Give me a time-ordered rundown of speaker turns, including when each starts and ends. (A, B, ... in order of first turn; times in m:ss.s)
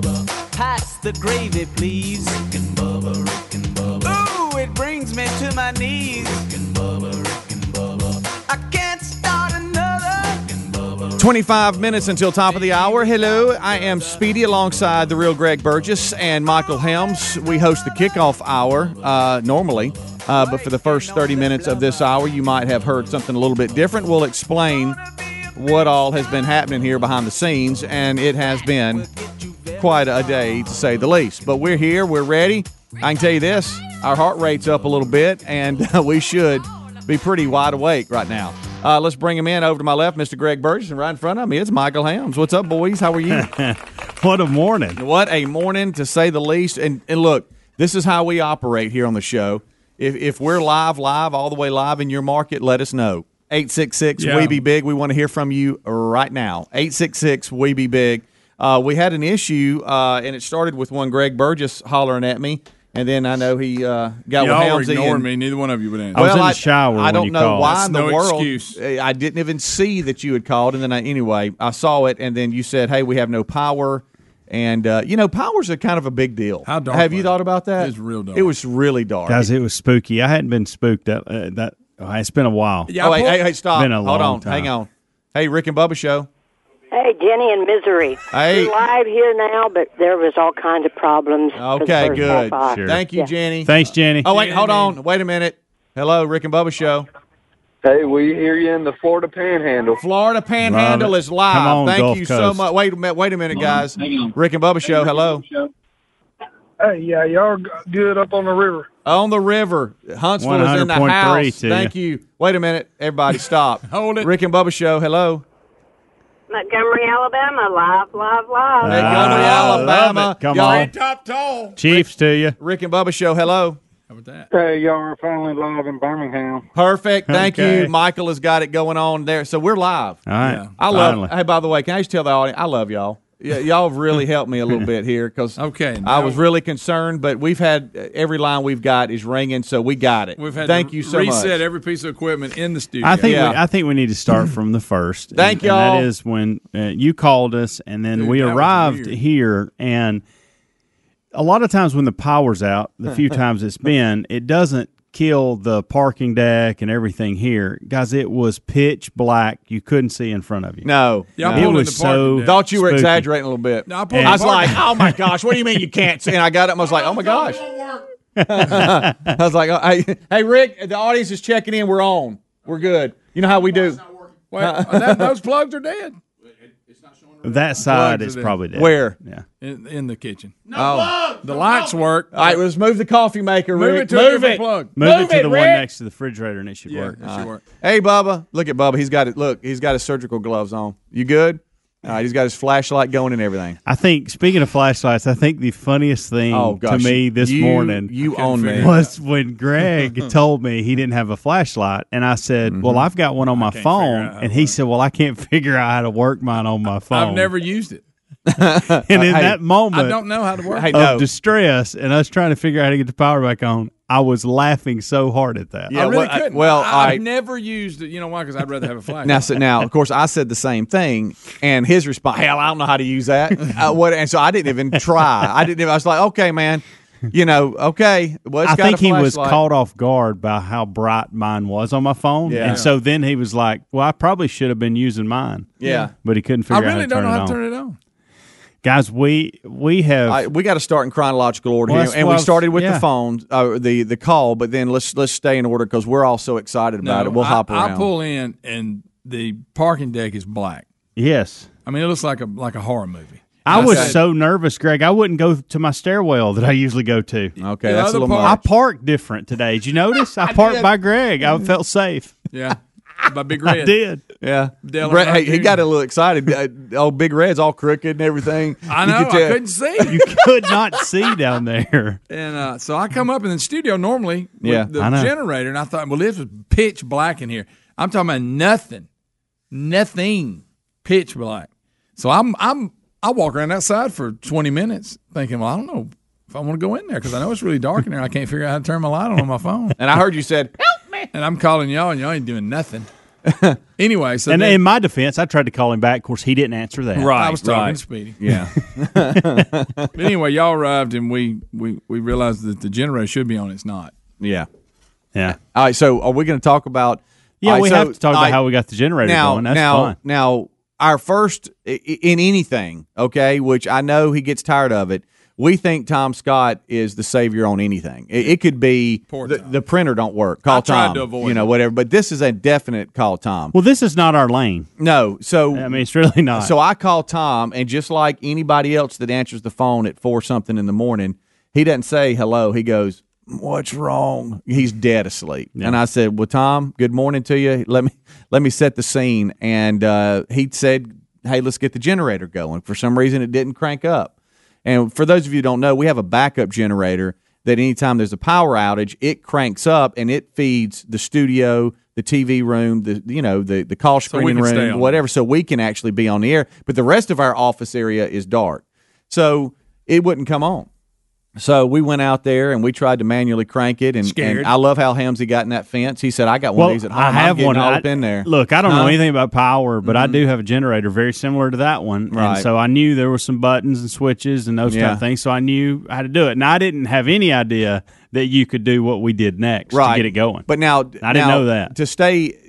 0:00.5-0:07.5 A
0:08.5-0:11.1 A
0:11.2-0:25.0 B
0:12.5-0:14.2 A
0:20.3-0:22.2 A
0:25.6-0:29.1 B
0:28.8-0:31.0 A
0:29.8-0:43.5 B
0:43.3-0:45.0 C
0:45.0-1:05.3 B
0:54.2-0:54.6 D
1:04.4-1:06.3 D
1:06.1-1:07.8 C
1:06.2-1:19.5 B
1:07.6-1:08.8 D
1:16.6-1:18.5 D
1:19.3-1:23.0 C
1:22.9-1:23.5 D
1:23.0-1:26.3 B
1:23.7-1:24.7 C
1:26.9-1:33.3 E
1:28.3-1:28.7 B
1:31.6-1:37.1 B
1:32.0-1:33.0 C
1:33.6-1:34.4 C
1:34.3-1:35.0 D
1:37.8-1:40.0 F
1:40.0-1:45.4 B
1:40.6-1:42.7 C
1:43.6-1:44.2 F
1:46.8-1:48.9 G
1:49.0-1:55.4 B
1:50.4-1:51.9 C
1:53.8-1:54.3 D
1:56.5-1:59.0 H
1:58.8-2:00.9 C
1:58.8-2:00.9 B
1:58.9-2:01.8 D
2:01.8-2:02.6 C
2:02.6-2:03.8 B
2:04.1-2:04.5 D
2:04.5-2:06.6 G
2:06.8-2:21.6 B
2:07.3-2:07.9 C
2:10.3-2:11.3 C
2:10.4-2:10.8 D
2:15.6-2:16.4 D
2:20.4-2:23.6 D
2:23.0-2:30.2 C
2:23.2-2:23.6 B
2:25.4-2:26.1 B
2:28.2-2:29.2 D
2:31.3-2:40.9 C
2:40.8-2:41.8 B
2:41.4-2:42.6 D
2:41.4-2:43.3 C
2:42.4-2:47.7 B
2:43.9-2:44.9 D
2:44.1-2:45.1 C
2:47.0-2:48.0 D
2:48.4-2:49.3 C
2:48.5-2:54.0 B
2:54.5-2:56.2 D
2:54.5-2:55.3 B
2:57.4-2:59.4 C
2:57.8-2:58.6 D
2:58.7-2:59.2 B
2:59.6-3:02.6 D
3:00.7-3:01.3 B
3:02.3-3:04.7 B
3:03.7-3:05.8 D
3:05.0-3:07.2 C
3:06.9-3:07.6 D
3:07.2-3:13.8 B
3:13.8-3:18.1 C
3:16.5-3:19.0 B
3:18.2-3:19.1 D
3:18.8-3:27.5 C
3:22.7-3:23.1 B
3:23.4-3:24.8 D
3:27.1-3:28.0 D
3:28.5-3:29.6 B
3:29.1-3:30.2 C
3:29.9-3:30.9 D
3:30.7-3:31.3 B
3:30.8-3:36.0 C
3:35.9-3:37.2 B
3:35.9-3:39.6 D
3:39.2-3:49.6 B
3:48.6-3:57.6 C
3:52.5-3:52.9 B
3:52.5-3:52.9 D
3:55.8-3:56.1 B
3:56.7-3:58.0 D
3:58.8-4:00.5 C
4:00.3-4:08.1 B
4:01.9-4:03.1 C
4:07.0-4:10.9 D
4:11.2-4:11.7 C
4:11.9-4:14.2 D
4:13.6-4:17.6 C
4:13.7-4:14.2 B
4:17.6-4:18.6 B
4:17.8-4:18.6 D
4:18.4-4:22.4 C
4:20.4-4:20.9 D
4:22.5-4:23.9 D
4:23.8-4:24.2 C
4:24.4-4:30.4 B
4:24.8-4:25.8 D
4:28.9-4:30.2 D
4:30.1-4:32.2 C
4:32.3-4:39.1 D
4:34.6-4:34.9 B
4:35.0-4:35.3 C
4:39.7-4:50.0 D
4:50.0-4:51.2 B
4:51.3-4:53.1 D
4:53.4-4:53.8 B
4:54.0-4:54.8 D
4:54.5-4:57.5 C
4:57.2-5:00.1 B
4:57.2-4:58.4 D
5:00.2-5:04.2 D
5:04.4-5:04.7 B
5:05.5-5:08.6 B
5:07.6-5:10.2 C
5:09.2-5:23.8 B
5:19.2-5:19.8 D
5:20.7-5:21.7 D
5:23.7-5:24.9 C
5:25.0-5:26.0 B
5:25.7-5:26.7 C
5:26.6-5:44.3 B
5:44.8-6:00.9 B
5:54.3-5:55.2 D
6:01.6-6:09.2 B
6:04.2-6:04.7 D
6:06.8-6:20.7 C
6:10.0-6:10.4 B
6:12.3-6:12.7 B
6:14.9-6:15.2 B
6:19.9-6:22.6 B
6:21.2-6:21.9 C